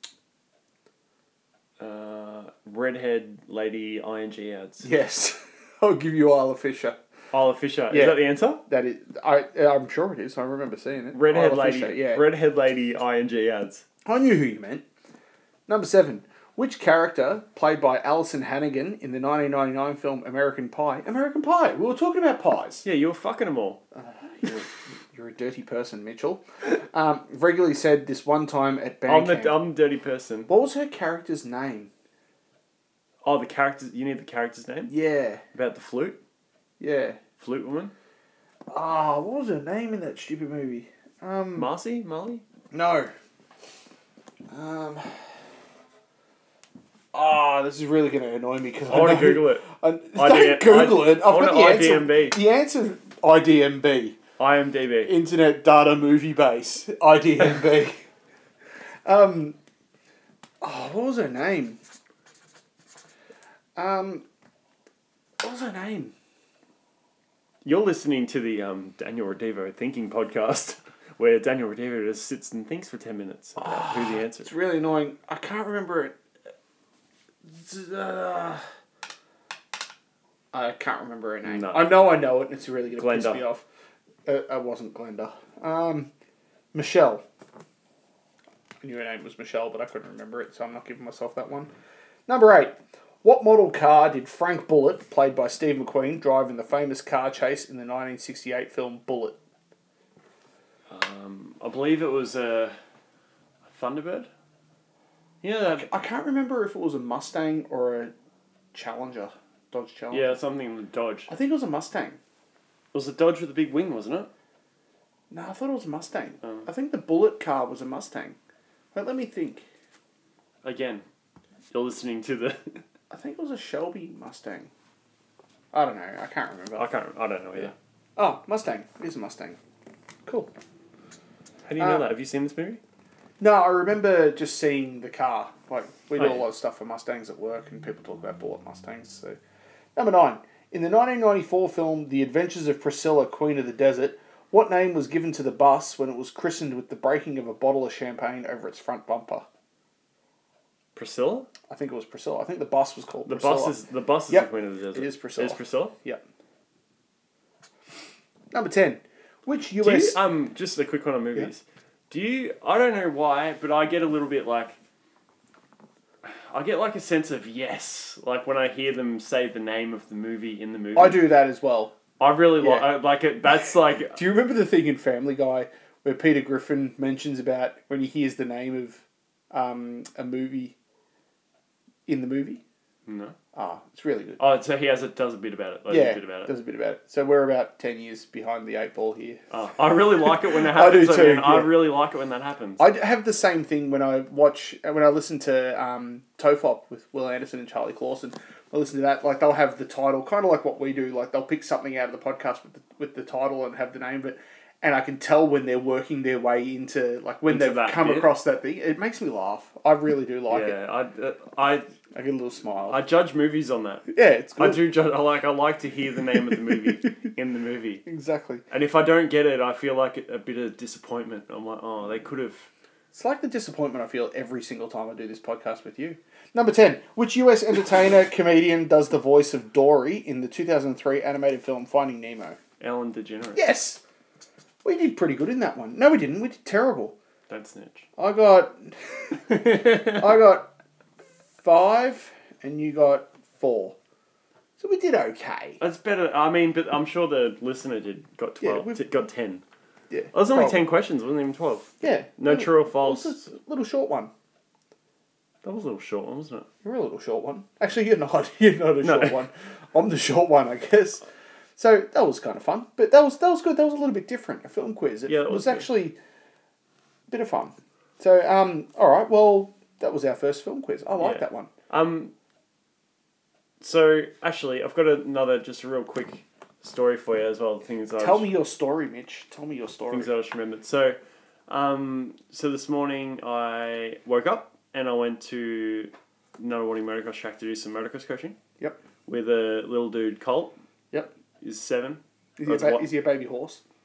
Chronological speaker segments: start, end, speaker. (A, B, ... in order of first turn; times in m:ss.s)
0:01.8-0:04.9 A
0:04.8-0:07.0 B
0:07.3-0:08.6 A
0:07.9-0:12.3 B
0:11.1-0:13.8 A
0:14.1-0:14.9 B
0:15.7-0:22.8 B
0:22.8-0:23.8 A
0:24.0-0:29.6 B
0:29.1-0:30.5 A
0:30.5-0:31.9 B
0:33.2-0:34.9 A
0:34.9-0:35.4 B
0:35.5-0:36.2 A
0:36.8-0:37.2 B
0:37.4-0:37.9 A
0:38.7-0:41.7 B
0:41.6-0:42.4 A
0:42.7-0:43.1 B
0:44.5-0:45.2 B
0:47.1-0:54.2 B
0:48.9-0:52.4 A
0:54.4-0:55.2 A
0:55.0-0:58.0 B
0:59.1-0:59.6 B
1:00.6-1:01.8 B
1:03.8-1:04.2 B
1:05.4-1:06.1 B
1:07.6-1:14.5 A
1:13.6-1:16.1 B
1:17.5-1:18.6 B
1:20.5-1:23.6 B
1:21.4-1:22.0 A
1:23.0-1:23.4 A
1:24.3-1:26.1 B
1:26.7-1:27.2 B
1:28.8-1:31.7 B
1:32.3-1:39.4 B
1:40.9-1:42.8 A
1:43.6-1:44.3 A
1:45.4-1:46.0 A
1:45.7-1:48.1 B
1:48.7-1:50.4 B
1:50.1-1:51.3 A
1:51.3-1:52.2 B
1:52.9-1:54.3 A
1:55.3-1:58.4 B
1:59.0-1:59.6 B
2:00.6-2:01.0 A
2:01.7-2:02.8 A
2:03.1-2:04.7 B
2:05.7-2:06.9 B
2:06.8-2:07.7 A
2:07.6-2:09.6 B
2:10.3-2:10.5 B
2:11.7-2:12.8 A
2:11.8-2:12.1 B
2:13.4-2:19.4 B
2:16.2-2:16.4 A
2:20.0-2:29.4 B
2:31.0-2:31.5 A
2:31.7-2:33.8 B
2:33.3-2:36.0 A
2:34.3-2:36.2 B
2:38.5-2:40.2 B
2:39.8-2:44.8 A
2:46.2-2:51.4 A
2:51.0-2:52.0 B
2:52.2-2:54.2 A
2:52.6-2:52.9 B
2:54.2-3:00.8 B
3:02.1-3:02.6 B
3:03.1-3:03.4 A
3:03.5-3:04.4 B
3:04.4-3:06.6 A
3:05.9-3:09.4 B
3:09.5-3:12.8 A
3:10.2-3:11.8 B
3:12.8-3:30.8 B
3:27.5-3:28.3 A
3:30.5-3:31.9 A
3:32.1-3:33.0 B
3:32.9-3:34.1 A
3:34.1-3:34.8 B
3:34.6-3:38.0 A
3:38.1-3:38.6 B
3:38.7-3:42.7 A
3:43.1-3:52.6 B
3:52.8-3:53.7 A
3:53.6-3:54.0 B
3:54.8-3:57.2 B
3:57.5-3:58.1 A
3:58.2-3:59.4 B
3:59.5-4:00.2 A
4:00.0-4:00.7 B
4:01.6-4:04.0 B
4:04.8-4:05.8 B
4:05.8-4:09.6 A
4:08.6-4:09.0 B
4:10.1-4:10.9 B
4:10.3-4:13.4 A
4:12.0-4:14.3 B
4:15.6-4:16.7 A
4:16.8-4:21.2 B
4:19.0-4:19.4 A
4:21.8-4:26.2 B
4:25.3-4:25.9 A
4:27.3-4:31.7 B
4:31.2-4:32.3 A
4:33.8-4:38.5 A
4:38.2-4:40.3 B
4:40.1-4:48.6 A
4:49.3-4:50.8 A
4:51.6-4:53.1 A
4:52.6-4:53.8 B